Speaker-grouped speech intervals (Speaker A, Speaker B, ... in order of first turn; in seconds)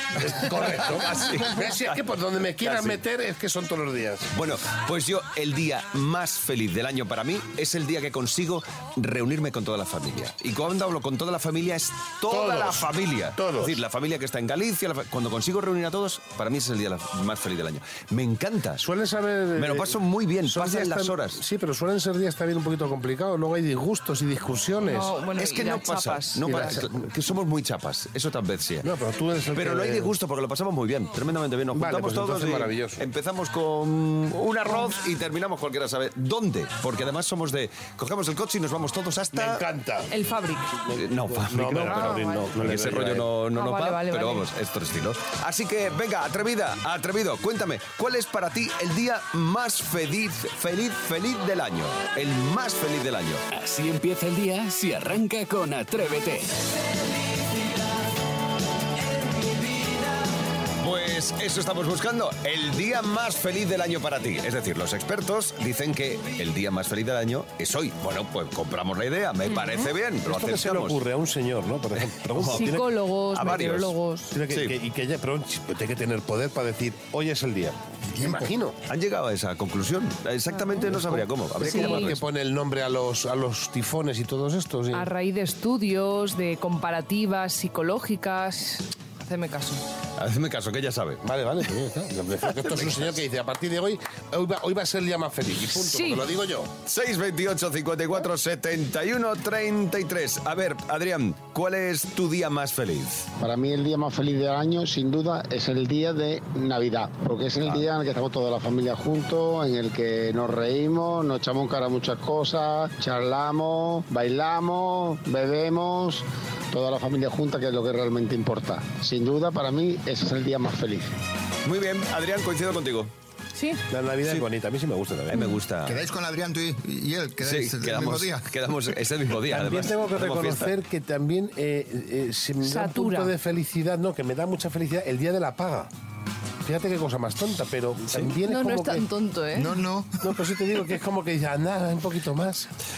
Speaker A: 0.2-4.3, 12.3-13.8, 18.8-25.2, 26.5-27.0, 28.8-30.1, 31.7-33.1, 39.3-40.1, 40.9-43.3, 70.3-72.9, 74.3-78.8, 80.8-85.1, 91.2-96.7, 123.9-125.5, 129.4-135.9, 136.6-139.1, 140.2-142.7
Speaker B: 0.4-1.9, 2.6-3.0, 4.3-18.9, 19.6-21.4, 25.4-28.9, 29.5-39.6, 40.9-53.4, 60.8-71.0, 72.3-72.8, 73.3-74.0, 74.5-74.7, 78.9-82.2, 90.2-91.2, 92.6-93.1, 96.8-103.3, 121.6-123.1, 125.3-126.1, 127.4-130.7
Speaker C: 24.8-26.8, 40.1-40.8, 41.8-42.6, 43.5-44.5, 69.5-69.9, 72.5-74.4, 81.6-82.1, 84.9-89.8, 95.8-96.2, 123.5-123.8, 132.6-133.3, 138.4-139.8
Speaker D: 53.5-56.6
Speaker E: 78.1-78.5, 125.9-128.5, 139.6-140.2
Speaker F: 103.4-121.1